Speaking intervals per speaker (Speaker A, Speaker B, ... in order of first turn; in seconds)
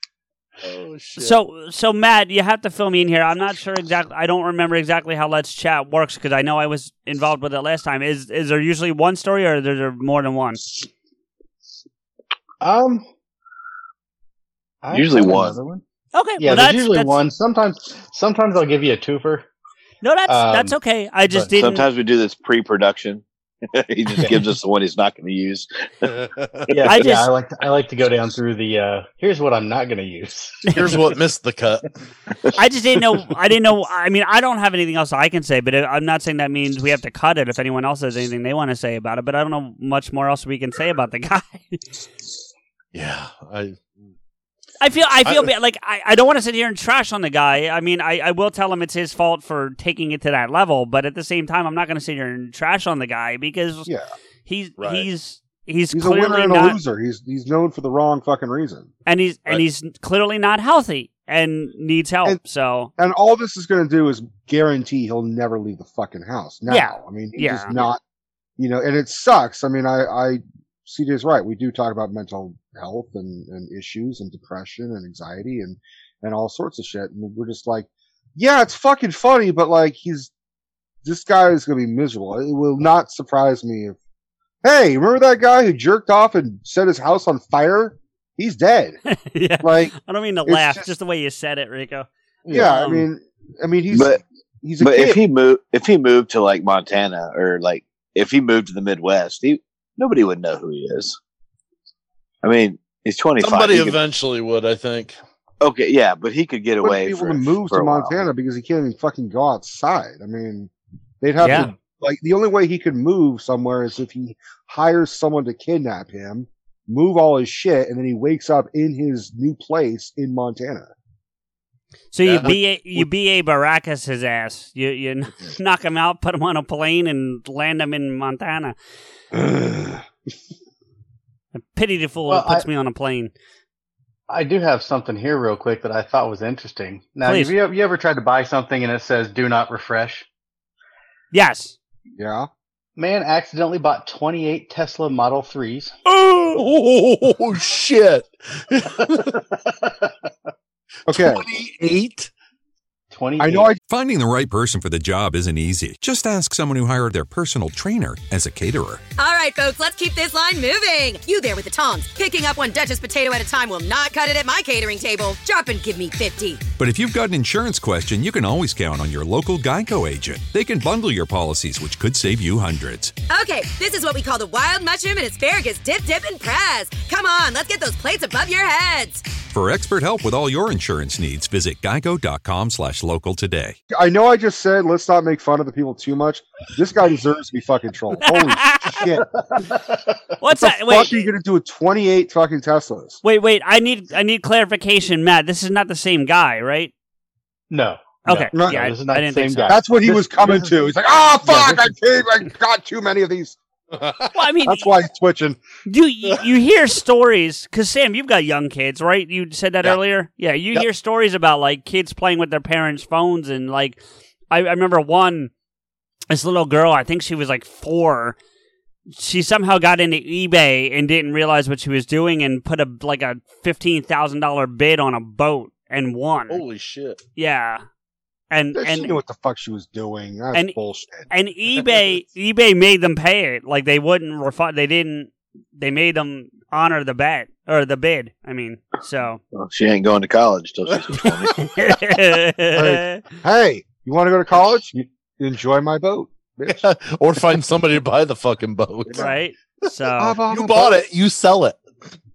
Speaker A: 0.6-1.4, 26.0-26.7, 30.7-31.9, 42.9-44.0, 45.2-45.5, 54.8-55.1, 103.4-105.2, 122.2-123.1, 146.1-149.4, 151.1-152.3, 204.0-204.3, 226.5-227.2, 246.7-249.3, 250.5-251.8
Speaker B: 1.2-10.6, 16.1-17.2, 20.0-21.9, 26.9-27.3, 32.5-41.8, 44.8-53.9, 54.5-56.8, 59.0-62.9, 66.7-67.7, 89.1-93.0, 111.4-111.7, 122.1-128.7, 131.5-133.3, 137.2-137.5, 141.3-141.8, 188.2-189.0, 190.4-191.3, 193.2-196.9, 198.2-199.8, 204.3-204.9, 205.8-214.0, 214.5-215.5, 216.3-218.4, 219.1-226.6, 227.3-227.8, 228.5-229.2, 231.3-239.4, 241.6-243.2, 249.1-250.4
Speaker C: 12.6-13.1, 14.8-15.8, 16.4-19.5, 20.3-20.8, 24.1-24.5, 26.7-30.7, 132.3-132.7, 134.3-140.2, 143.0-145.9, 153.1-153.7, 189.3-190.2, 197.7-200.8, 201.4-201.9
Speaker D: 14.9-15.6, 21.5-26.1, 26.7-26.9, 93.9-94.2, 94.8-101.2, 102.4-104.0, 105.6-108.2, 239.5-241.7
Speaker E: 55.9-58.9, 63.0-68.0, 68.6-80.3, 81.0-84.0, 84.6-89.0, 89.6-90.9, 92.5-95.2, 106.8-110.7, 111.2-120.9, 129.3-130.0, 142.2-142.5, 151.1-151.4, 153.4-153.8, 183.9-189.2, 190.5-193.2, 198.5-198.8, 199.7-203.6, 204.6-205.6, 228.7-231.3, 242.7-246.8, 250.2-251.0
Speaker F: 153.8-159.0, 166.8-173.1, 179.5-183.8
Speaker G: 159.2-166.6, 173.3-179.2